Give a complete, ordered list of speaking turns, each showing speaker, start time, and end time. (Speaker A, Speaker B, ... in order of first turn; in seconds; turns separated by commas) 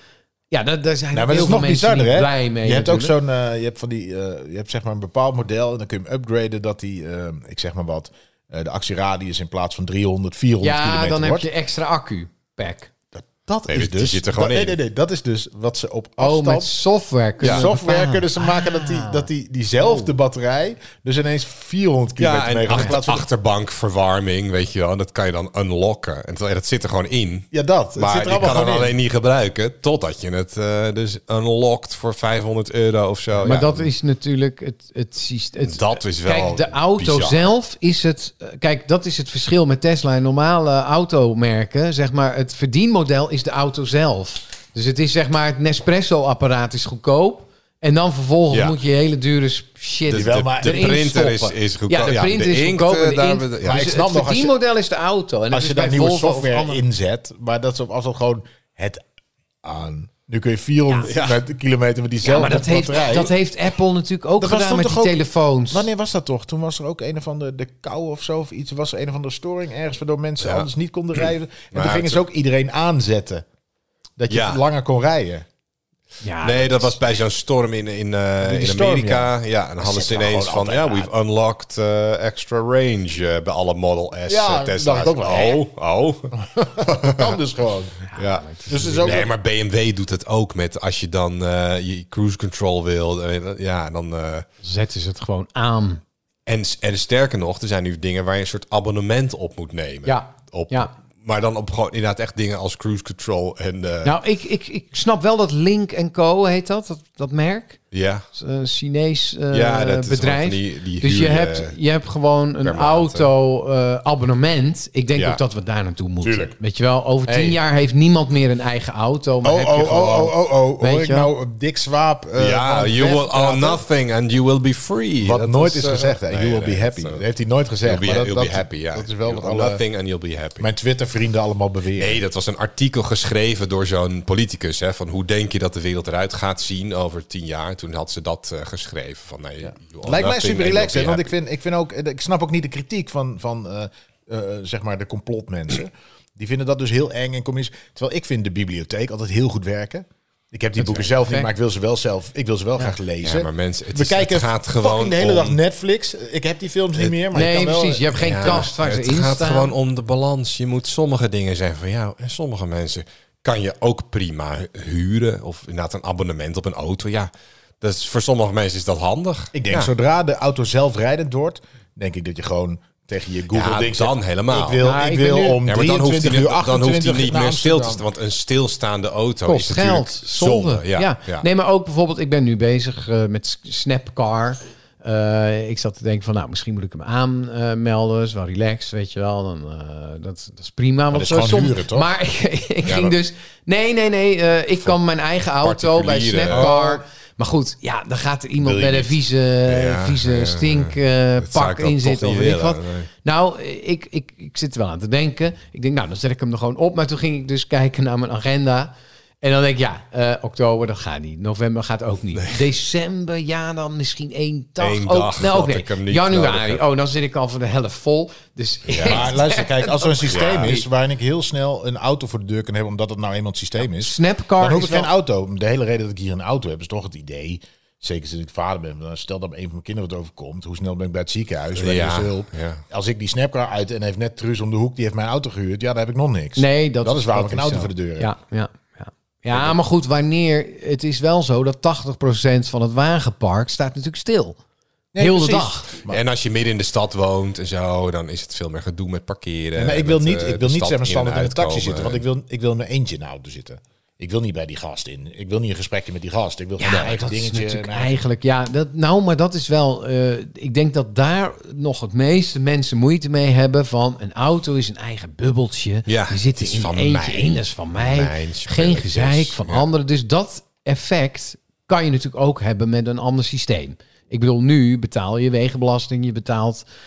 Speaker A: 0.5-3.1, Speaker B: 1.1-11.5, Speaker A: 10.6-12.9, Speaker B: 13.1-16.7, Speaker C: 13.7-14.8, Speaker A: 16.2-19.3, Speaker C: 17.4-17.7, Speaker B: 17.4-23.3, Speaker C: 22.2-33.9, Speaker B: 27.5-29.0, Speaker A: 33.4-56.8, Speaker C: 35.7-37.5, Speaker C: 48.5-48.8, Speaker C: 50.1-53.9, Speaker B: 50.1-50.9, Speaker B: 53.6-54.5, Speaker B: 55.5-59.0, Speaker B: 59.6-63.4, Speaker C: 61.0-61.4, Speaker A: 62.2-65.9, Speaker B: 64.4-73.5, Speaker C: 70.4-72.2, Speaker B: 74.2-75.5, Speaker C: 74.3-74.6, Speaker A: 76.2-77.0, Speaker C: 76.4-87.4, Speaker B: 78.4-81.1, Speaker B: 84.3-85.6, Speaker B: 86.4-88.0, Speaker A: 88.1-89.1, Speaker C: 88.2-94.5, Speaker B: 88.7-89.3, Speaker A: 94.6-96.0, Speaker C: 96.5-104.2, Speaker A: 100.0-100.9, Speaker A: 104.0-107.8, Speaker C: 107.9-108.3, Speaker A: 108.3-121.3, Speaker C: 109.5-111.8, Speaker C: 112.6-113.3, Speaker C: 115.2-115.4, Speaker B: 116.2-116.5, Speaker B: 117.3-117.6, Speaker B: 119.4-123.8, Speaker C: 122.4-127.2, Speaker B: 125.2-129.8, Speaker C: 127.8-130.7, Speaker B: 130.6-132.2, Speaker C: 132.0-141.3, Speaker B: 140.0-158.7, Speaker A: 150.8-151.5, Speaker C: 153.2-155.6, Speaker A: 157.3-159.7, Speaker C: 158.2-169.9, Speaker B: 169.5-178.0, Speaker C: 173.5-174.8, Speaker A: 174.8-175.6, Speaker C: 175.7-181.5, Speaker A: 179.5-220.8, Speaker B: 191.1-192.1, Speaker C: 192.8-193.2, Speaker C: 195.6-196.7, Speaker B: 196.5-197.0, Speaker B: 198.6-199.1, Speaker C: 199.7-203.1, Speaker C: 214.8-216.8, Speaker C: 218.9-219.3, Speaker B: 219.0-238.3, Speaker C: 220.3-220.8, Speaker A: 223.9-225.1, Speaker C: 231.8-232.8, Speaker A: 236.6-244.6, Speaker B: 245.1-246.2, Speaker A: 245.2-245.9, Speaker C: 246.1-252.2, Speaker B: 249.8-258.2, Speaker A: 256.8-276.9, Speaker C: 266.1-269.9